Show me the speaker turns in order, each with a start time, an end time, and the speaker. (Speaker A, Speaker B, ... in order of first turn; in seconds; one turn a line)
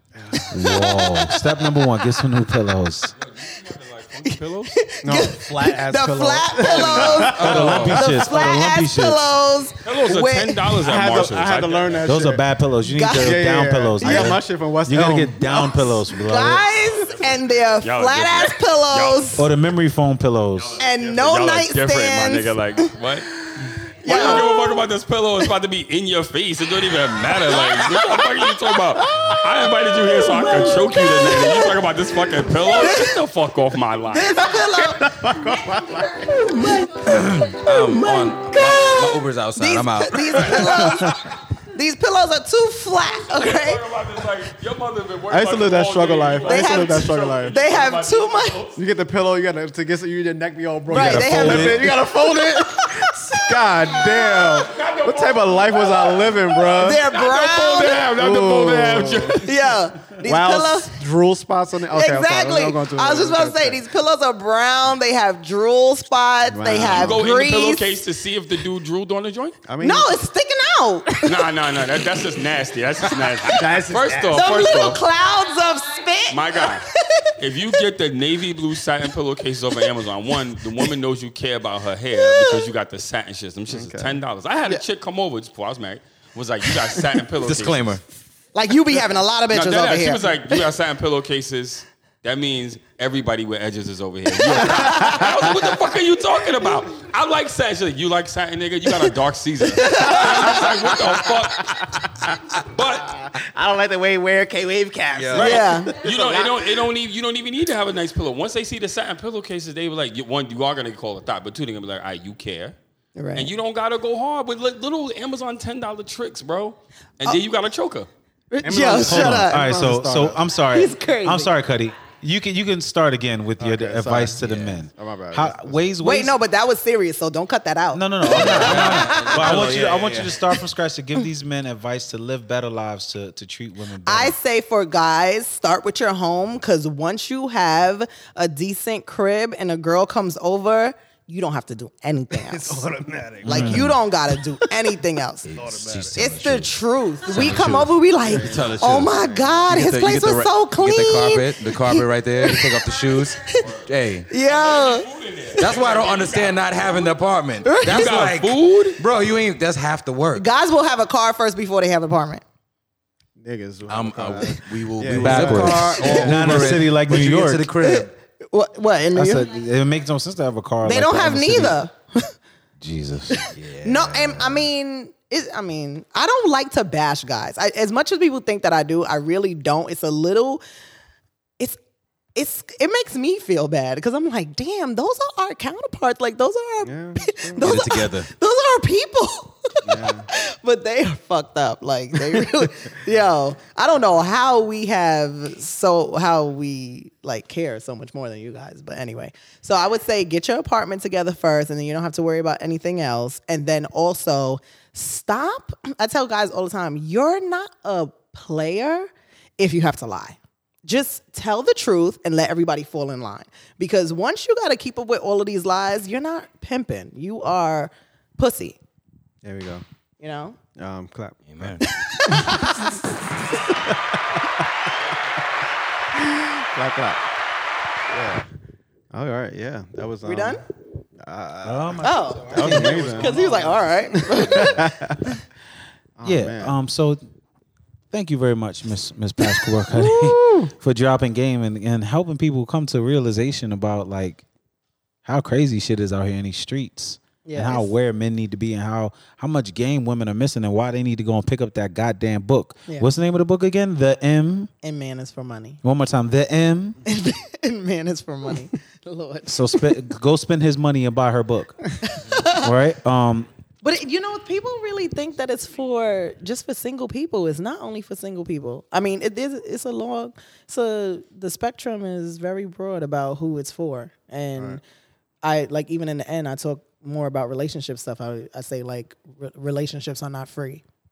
Speaker A: 0.1-0.5
Speaker B: 0.3-2.0
Speaker C: 0.5-3.1
Speaker D: 3.2-4.8
Speaker B: 4.2-10.8
Speaker A: 5.0-7.6
Speaker D: 6.6-7.8
Speaker E: 7.2-8.1
Speaker C: 7.4-9.2
Speaker D: 9.8-12.1
Speaker A: 10.8-12.4
Speaker C: 12.0-16.7
Speaker B: 12.9-14.4
Speaker A: 13.2-15.5
Speaker B: 15.4-19.5
Speaker D: 16.8-19.3
Speaker C: 19.4-20.8
Speaker D: 20.6-23.4
Speaker B: 20.8-22.9
Speaker B: 23.4-24.8
Speaker D: 24.0-34.6
Speaker B: 27.5-28.2
Speaker B: 29.0-29.4
Speaker B: 30.1-31.8
Speaker B: 32.6-33.2
Speaker B: 34.1-43.8
Speaker A: 34.8-36.7
Speaker E: 37.0-41.0
Speaker D: 43.2-48.8
Speaker A: 45.3-47.6
Speaker B: 46.4-48.6
Speaker A: 48.8-57.1
Speaker B: 50.9-54.6
Speaker C: 50.9-51.9
Speaker D: 54.5-59.6
Speaker B: 56.7-58.1
Speaker A: 58.0-59.5
Speaker B: 59.4-61.0
Speaker A: 60.2-63.8
Speaker B: 61.9-67.9
Speaker A: 66.4-67.2
Speaker D: 66.9-69.6
Speaker A: 69.6-70.1
Speaker B: 69.8-71.5
Speaker D: 71.2-75.0
Speaker A: 73.4-74.7
Speaker B: 74.3-77.3
Speaker D: 76.3-88.0
Speaker B: 82.2-82.7
Speaker A: 83.7-84.8
Speaker E: 87.4-88.0
Speaker B: 88.5-90.6
Speaker D: 89.5-103.2
Speaker B: 94.5-95.5
Speaker B: 99.7-100.7
Speaker A: 99.9-106.6
Speaker E: 105.1-105.7
Speaker D: 105.3-112.8
Speaker B: 105.3-106.0
Speaker B: 113.2-113.5
Speaker D: 113.3-118.1
Speaker B: 118.5-120.0
Speaker A: 118.6-120.4
Speaker C: 119.0-126.3
Speaker B: 120.6-121.5
Speaker A: 123.6-125.8
Speaker E: 124.4-124.8
Speaker B: 126.0-129.6
Speaker C: 127.9-134.4
Speaker E: 128.6-130.2
Speaker A: 129.3-130.0
Speaker B: 134.0-142.9
Speaker A: 142.3-143.8
Speaker B: 143.4-145.5
Speaker C: 143.4-143.9
Speaker A: 144.6-145.0
Speaker E: 145.4-154.3
Speaker A: 145.6-146.3
Speaker B: 146.1-152.9
Speaker A: 148.2-149.7
Speaker D: 153.4-159.0
Speaker B: 154.3-155.1
Speaker E: 155.6-160.4
Speaker B: 157.6-158.2
Speaker B: 160.3-162.4
Speaker A: 163.4-166.7
Speaker E: 163.9-168.1
Speaker C: 165.1-167.7
Speaker B: 167.8-169.5
Speaker C: 169.1-171.8
Speaker B: 170.8-172.3
Speaker C: 172.8-173.5
Speaker B: 173.3-180.6
Speaker E: 173.5-174.7
Speaker B: 182.3-218.8
Speaker A: 186.8-187.8
Speaker E: 187.6-188.3
Speaker A: 189.8-190.3
Speaker A: 219.4-219.8
Speaker B: 220.2-220.6
Speaker A: 220.7-223.0
Speaker E: 221.4-221.8
Speaker B: 221.8-223.1
Speaker A: 223.6-224.7
Speaker A: 226.2-227.2
Speaker A: 228.1-228.4
Speaker A: 229.1-230.6
Speaker B: 230.2-230.6
Speaker A: 231.2-235.3
Speaker C: 231.6-233.4
Speaker B: 232.0-235.4
Speaker D: 232.6-233.8
Speaker A: 236.2-236.8
Speaker C: 236.2-237.2
Speaker C: 238.1-244.4
Speaker B: 239.6-240.7
Speaker C: 245.2-254.7
Speaker B: 247.4-247.9
Speaker B: 254.8-255.8
Speaker C: 255.8-257.0
Speaker B: 257.0-260.0
Speaker C: 259.4-263.5
Speaker B: 262.0-262.7
Speaker B: 263.8-274.8
Speaker A: 274.5-274.8
Speaker B: 275.4-280.8